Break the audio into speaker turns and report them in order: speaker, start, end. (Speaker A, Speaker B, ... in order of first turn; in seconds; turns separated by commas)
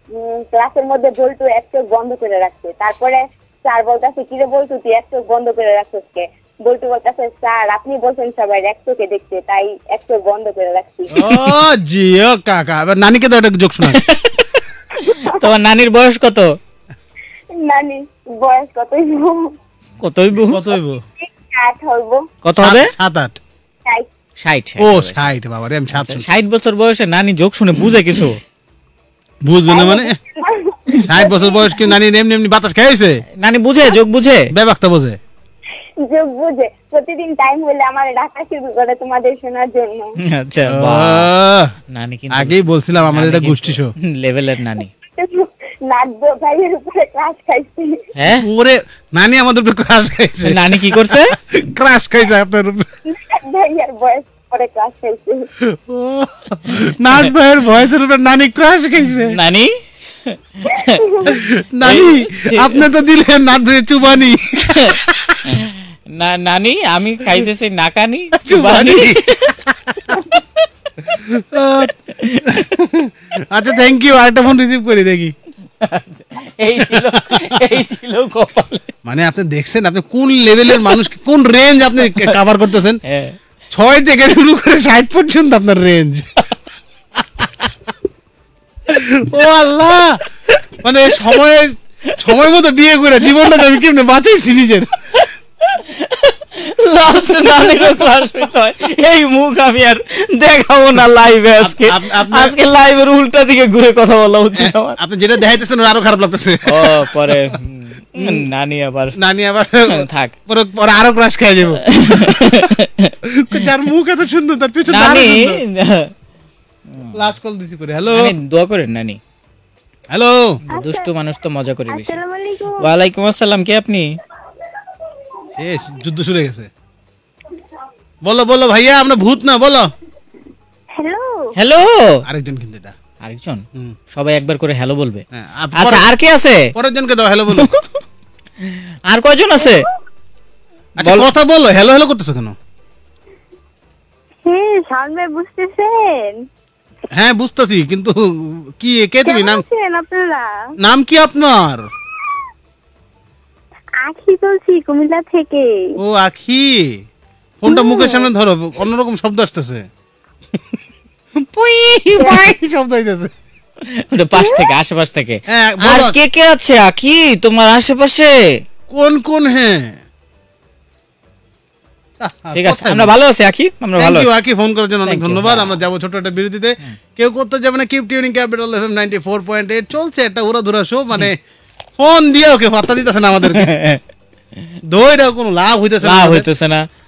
Speaker A: 0.1-11.4, Speaker B: 11.1-14.0, Speaker C: 13.8-16.5, Speaker A: 15.1-15.4, Speaker A: 17.5-19.6, Speaker C: 20.0-20.6, Speaker B: 20.5-21.0, Speaker A: 21.2-22.3, Speaker C: 22.4-22.9, Speaker B: 22.6-23.4, Speaker C: 24.4-25.3, Speaker B: 24.8-26.3, Speaker C: 25.9-28.4, Speaker B: 29.4-30.2, Speaker A: 29.7-31.9, Speaker B: 31.0-33.2, Speaker C: 33.4-34.5, Speaker B: 34.5-35.2, Speaker A: 36.0-40.1, Speaker C: 40.2-41.3, Speaker B: 40.7-41.7, Speaker C: 41.9-44.9, Speaker B: 42.3-43.9, Speaker A: 45.1-48.0, Speaker C: 48.2-48.5, Speaker B: 48.3-52.9, Speaker C: 50.4-51.3, Speaker A: 53.1-55.5, Speaker B: 55.6-59.4, Speaker C: 59.2-59.7, Speaker C: 60.2-62.8, Speaker A: 60.7-61.3, Speaker B: 61.3-65.6, Speaker C: 64.7-69.6, Speaker B: 68.4-70.2, Speaker B: 71.0-75.3, Speaker C: 72.1-72.6, Speaker C: 75.8-78.9, Speaker B: 76.9-77.8, Speaker B: 79.0-83.0, Speaker C: 83.0-83.3, Speaker B: 83.7-86.4, Speaker B: 87.2-87.7, Speaker B: 88.9-90.2, Speaker B: 90.8-95.2, Speaker C: 95.7-105.0, Speaker B: 101.6-102.5, Speaker B: 104.5-107.5, Speaker C: 106.7-109.2, Speaker B: 108.2-108.4, Speaker B: 109.2-112.7, Speaker C: 109.9-110.3, Speaker C: 111.8-113.6, Speaker B: 113.2-115.6, Speaker C: 114.9-116.1, Speaker C: 116.9-117.2, Speaker B: 117.1-118.3, Speaker C: 118.1-119.2, Speaker B: 120.1-120.5, Speaker C: 120.7-122.2, Speaker A: 120.7-121.1, Speaker A: 121.9-122.8, Speaker C: 122.8-124.1, Speaker B: 125.6-126.7, Speaker B: 128.2-129.9, Speaker A: 131.0-131.4, Speaker C: 131.6-132.2, Speaker B: 132.3-132.9, Speaker C: 133.2-135.2, Speaker B: 135.3-136.1, Speaker C: 135.8-136.7, Speaker B: 136.7-137.7, Speaker C: 137.6-137.9, Speaker C: 138.6-139.8, Speaker A: 139.6-139.9, Speaker B: 141.0-142.6, Speaker C: 141.0-141.3, Speaker A: 144.4-146.4, Speaker B: 147.1-149.6, Speaker A: 149.2-150.4, Speaker B: 150.8-151.9, Speaker A: 154.0-156.0, Speaker B: 156.0-157.0, Speaker B: 157.6-159.8, Speaker A: 157.7-158.3, Speaker B: 160.5-160.8, Speaker B: 161.4-163.3, Speaker C: 163.9-168.3, Speaker A: 164.3-164.7, Speaker B: 165.5-166.2, Speaker B: 168.9-170.0, Speaker B: 172.2-173.1, Speaker C: 172.5-174.3, Speaker B: 173.9-181.4, Speaker C: 175.1-175.8, Speaker B: 182.0-183.7, Speaker C: 183.5-184.0, Speaker B: 184.9-186.5, Speaker C: 186.0-186.8